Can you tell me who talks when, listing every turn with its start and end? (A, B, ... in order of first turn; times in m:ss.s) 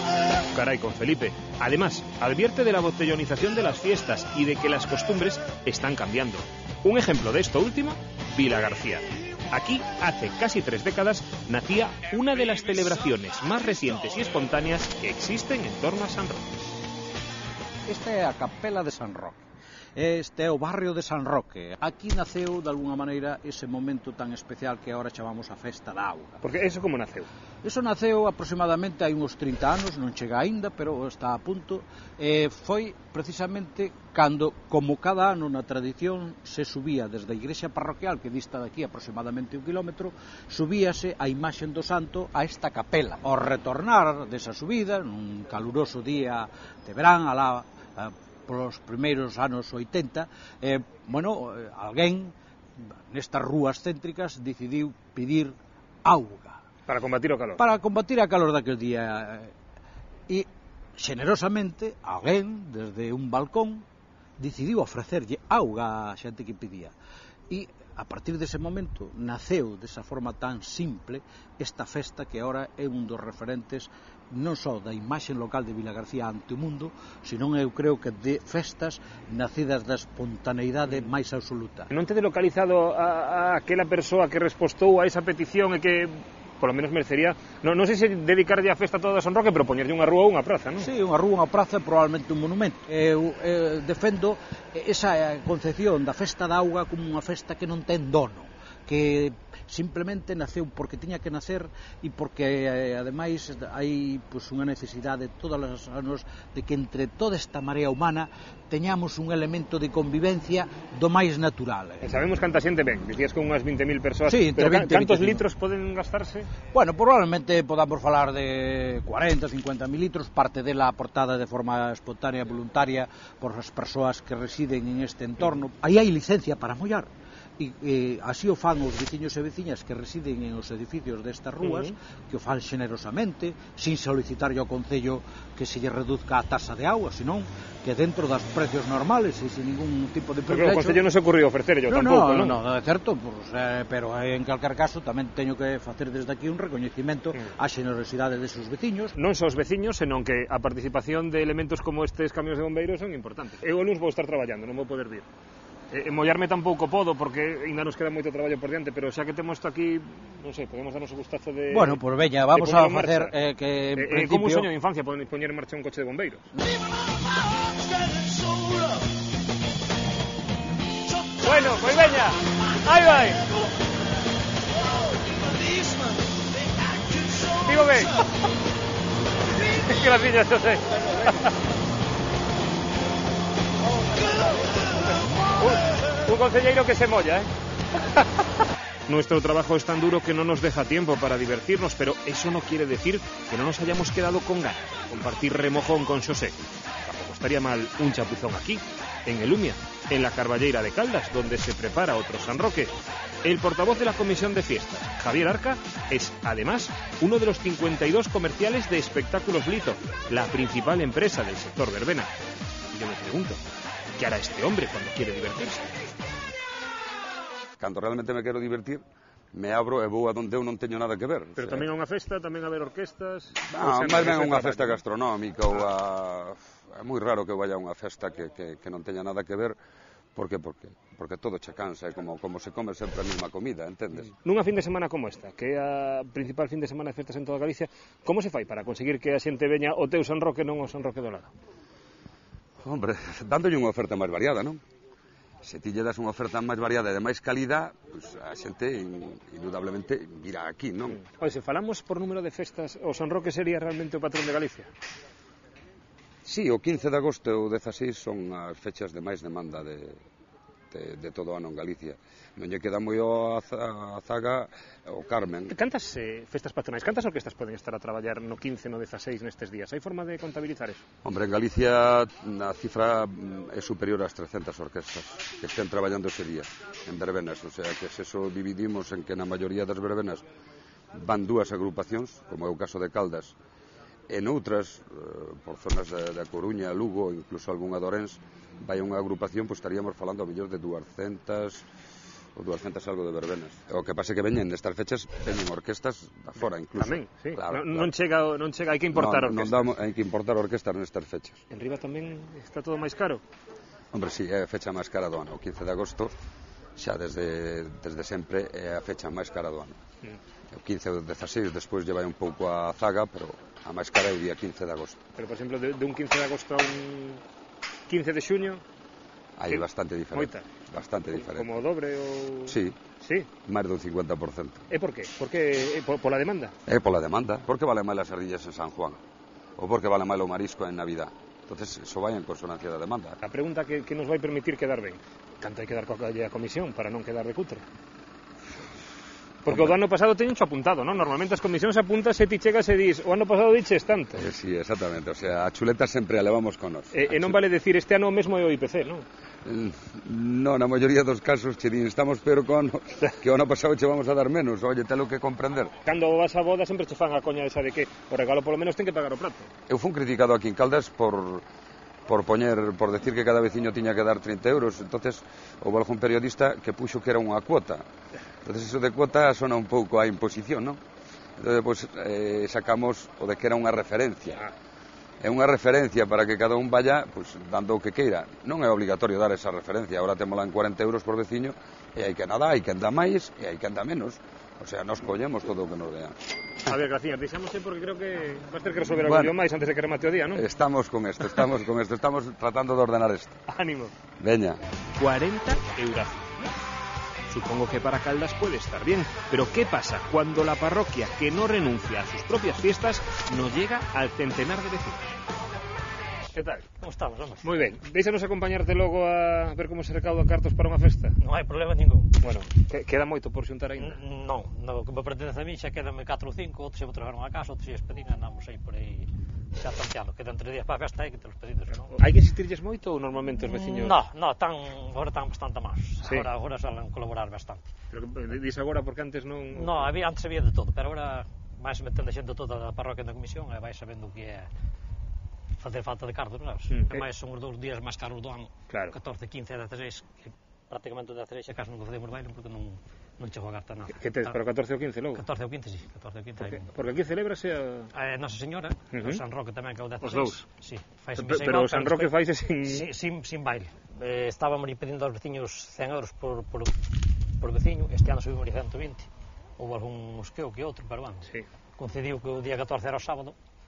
0:00.5-0:16.5 A
0:17.9-0:19.4 B
0:20.0-0:26.4 B
0:26.4-0:27.3 A
0:27.6-0:52.3 B
0:53.1-0:56.6 B
0:56.9-0:57.6 A
0:57.6-0:59.5 B
1:00.3-1:03.9 B
1:04.4-1:06.9 B
1:07.5-1:21.9 B
1:21.9-1:30.9 A
1:30.8-1:52.1 B
1:52.0-1:56.5 A
1:54.3-1:55.4 B
1:56.7-2:21.0 B
2:11.6-2:11.9 A
2:20.5-2:22.6 A
2:21.9-2:29.2 B
2:29.2-2:35.3 A
2:35.9-2:42.0 A
2:41.7-2:44.7 B
2:42.5-2:43.3 A
2:44.0-2:46.5 A
2:51.4-2:53.4 A
2:57.6-2:58.2 A
2:59.8-3:01.3 A
3:05.6-3:07.5 A
3:09.1-3:22.9 A
3:23.4-3:32.3 A
3:32.9-3:33.6 A
3:34.2-3:36.0 A
3:37.8-3:41.9 C
3:41.6-3:45.0 A
3:43.7-3:49.8 C
3:50.4-3:54.3 C
3:54.4-4:01.5 A
4:02.8-4:04.8 C
4:05.6-4:11.2 C
4:11.2-4:14.9 A
4:16.4-4:20.2 C
4:20.9-4:25.8 C
4:25.7-4:31.0 A
4:31.2-4:40.4 C
4:41.1-4:43.6 C
4:44.3-4:51.9 C
4:52.6-4:58.1 C
4:56.6-4:59.9 A
4:59.1-5:01.6 C
5:01.7-5:03.4 A
5:04.1-5:06.3 C
5:07.0-5:10.0 C
5:10.7-5:15.2 C
5:15.4-5:17.4 A
5:18.1-5:18.8 A
5:19.6-5:21.7 C
5:19.7-5:20.7 A
5:21.3-5:23.5 A
5:22.7-5:23.0 C
5:23.7-5:24.8 C
5:24.9-5:26.8 A
5:26.9-5:29.2 C
5:29.8-5:33.4 C
5:33.4-5:37.9 A
5:39.6-5:44.4 A
5:39.7-5:40.0 C
5:44.4-5:47.6 C
5:47.1-5:49.3 A
5:49.6-5:55.9 C
5:56.1-5:59.7 A
5:59.9-6:01.6 C
6:02.3-6:08.0 C
6:08.6-6:11.0 C
6:11.6-6:14.6 C
6:15.4-6:26.4 C
6:26.9-6:30.6 A
6:29.2-6:29.5 C
6:30.5-6:33.6 C
6:33.7-6:34.1 A
6:34.4-6:34.8 C
6:35.2-6:36.5 A
6:37.5-6:45.3 A
6:46.5-6:46.8 A
6:47.0-6:47.7 D
6:47.6-6:51.4 A
6:51.4-6:52.3 D
6:52.4-6:54.2 A
6:54.0-7:02.2 D
7:02.1-7:04.2 A
7:03.7-7:07.9 D
7:08.1-7:10.1 A
7:09.8-7:14.7 D
7:15.8-7:24.6 D
7:16.9-7:17.2 A
7:18.9-7:19.1 A
7:24.2-7:25.4 A
7:25.4-7:26.9 D
7:26.7-7:28.1 A
7:28.1-7:32.4 D
7:29.1-7:29.4 A
7:30.2-7:30.6 A
7:31.4-7:33.1 A
7:32.9-7:36.9 D
7:37.6-7:43.6 D